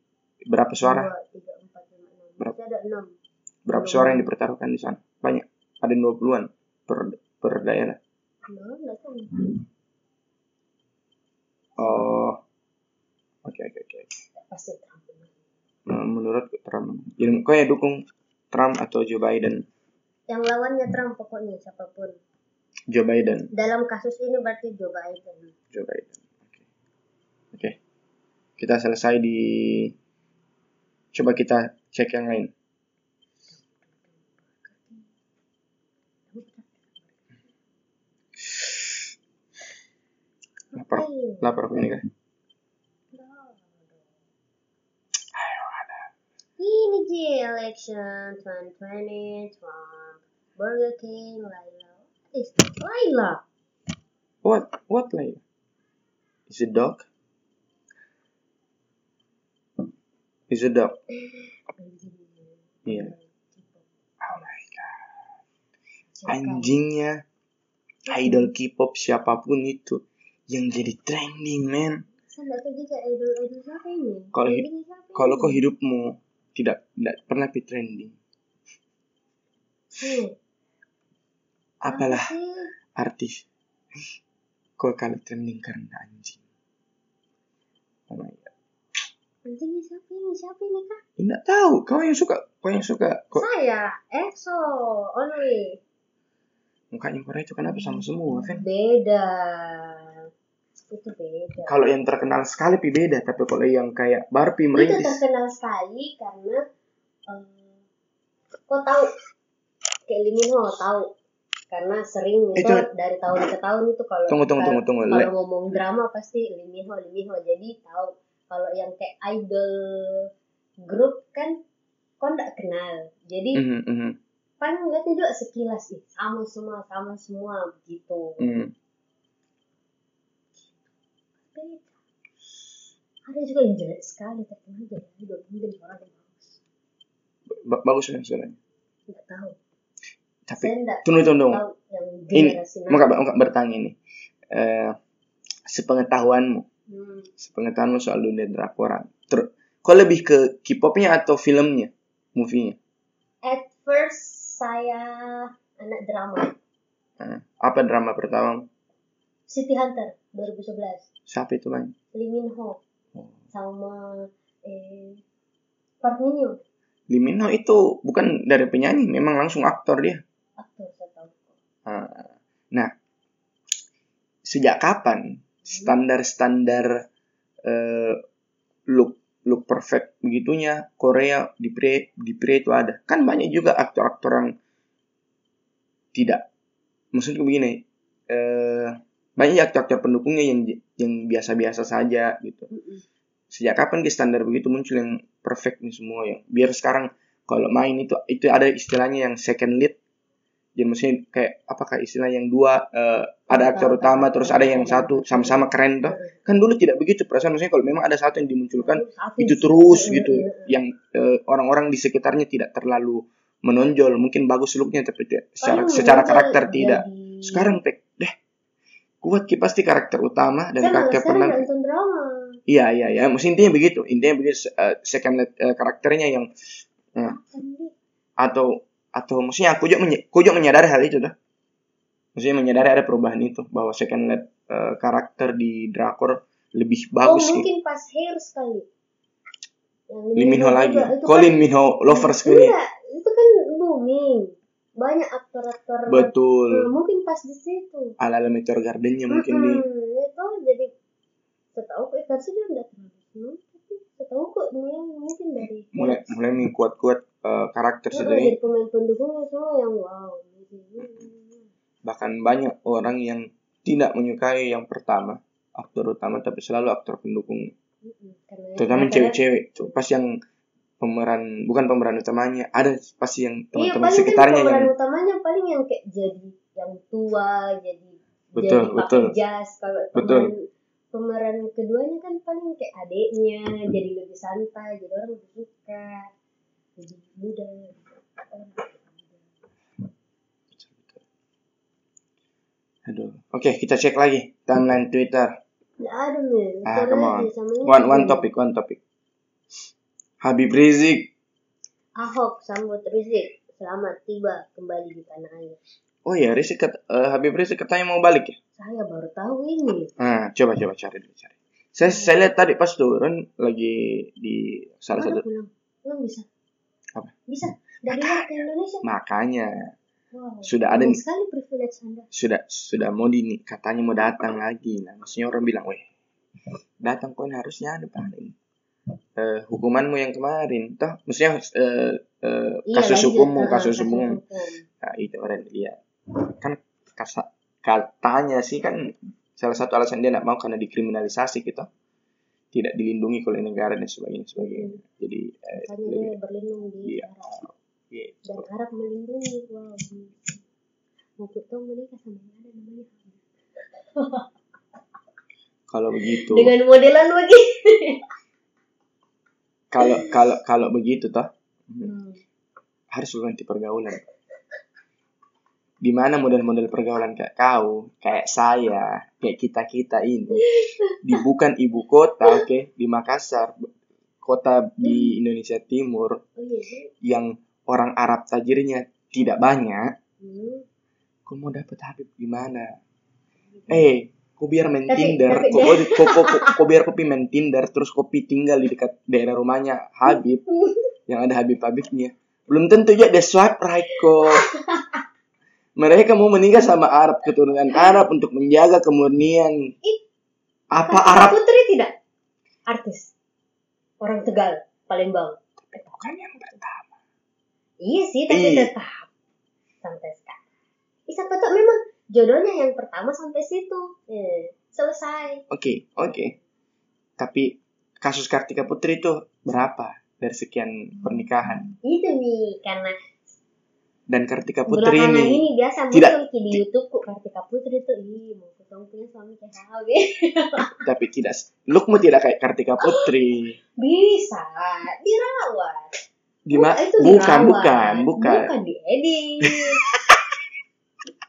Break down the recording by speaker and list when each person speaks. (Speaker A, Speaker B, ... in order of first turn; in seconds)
Speaker A: 0.5-1.1, 3.6-8.0, 11.8-12.4, 13.4-14.1, 15.9-19.6, 22.9-23.5, 25.7-26.6, 27.5-27.8, 28.6-29.9, 31.1-32.5, 38.4-39.1, 40.7-42.0, 45.3-46.1, 54.4-55.4, 56.5-57.1, 60.5-60.9, 62.9-63.1, 64.2-65.0, 66.2-67.2, 68.1-72.0, 74.3-78.2, 81.8-82.3, 82.9-83.4, 84.8-86.4, 88.1-88.5, 91.2-93.4, 96.9-98.6, 101.7-105.2, 112.5-112.9, 114.3-115.3, 123.5-124.2, 128.4-128.7, 137.5-138.6, 140.5-141.6, 142.3-144.0, 144.5-145.0, 145.7-146.7, 147.4-152.8, 157.2-158.7, 161.3-161.9, 167.1-170.2, 171.8-172.9, 174.4-177.0, 177.6-178.2, 178.9-184.5, 186.1-186.4, 187.1-192.7, 193.5-200.0, 200.8-218.3, 219.2-221.6, 222.7-226.5, 228.4-231.3, 232.3-237.7, 240.3-242.7, 246.1-246.9, 248.2-249.8, 255.9-258.6, 262.0-267.7, 268.8-270.4, 271.0-274.9, 278.6-279.3, 280.1-280.5, 290.7-291.2, 293.1-295.6, 296.9-299.0, 300.4-301.3, 306.2-308.6, 310.2-315.4, 318.1-319.9, 320.6-321.2, 322.3-326.1, 327.0-328.5, 329.4-334.4, 335.0-341.9, 342.7-346.3, 347.0-348.6, 355.9-356.7, 359.9-362.1, 363.1-364.2, 366.0-370.7, 371.2-373.9, 374.4-376.4, 377.2-380.1, 381.4-382.9, 383.9-390.6, 391.3-394.6, 396.0-399.9, 400.9-401.6, 405.8-407.1, 408.5-408.9, 415.7-416.6, 417.4-421.9, 424.3-426.8, 431.0-433.8, 436.6-438.7, 439.6-440.4
Speaker B: 0.8-3.1, 3.7-4.3, 8.4-9.6, 11.8-12.2, 14.4-15.3, 20.3-22.2, 23.5-25.5, 33.5-35.0, 36.3-37.3, 40.7-41.5, 43.1-44.0, 46.6-53.4, 61.2-63.8, 66.2-66.8, 68.1-68.5, 72.3-75.6, 79.9-80.3, 81.9-82.7, 89.4-91.0, 93.3-95.8, 98.5-100.2, 100.9-101.8, 104.7-106.6, 107.3-107.8, 108.7-109.1, 110.1-111.1, 111.7-120.3, 120.8-121.5, 122.2-123.6, 124.6-128.4, 131.4-131.9, 133.2-136.6, 139.1-139.6, 140.6-143.1, 146.9-147.3, 153.4-156.6, 159.5-161.1, 162.1-162.8, 163.5-165.2, 166.0-166.6, 170.6-171.6, 175.7-175.9, 192.7-193.0, 203.5-206.3, 208.8-210.7, 215.6-217.8, 220.8-222.6, 227.2-227.9, 237.2-238.9, 240.1-241.6, 242.1-248.2, 249.3-250.9, 251.7-256.3, 258.1-261.7, 268.0-269.4, 273.7-280.6, 281.1-286.3, 287.0-289.5, 296.0-298.5, 302.2-305.8, 308.8-310.1, 312.1-312.5, 315.2-316.4, 317.5-319.0, 320.3-322.3, 332.9-334.8, 344.6-345.0, 345.8-347.6, 348.4-350.6, 351.4-354.5, 356.2-358.3, 360.0-360.4, 362.0-362.4, 370.6-371.4, 375.0-375.3, 376.6-377.1, 380.4-380.9, 385.1-386.8, 390.3-391.1, 394.4-395.2, 401.0-402.1, 402.9-403.3, 404.2-406.4, 408.0-409.3, 410.0-410.6, 411.3-415.6, 422.0-423.2, 424.9-431.0, 433.0-433.3, 434.0-436.1, 436.7-440.0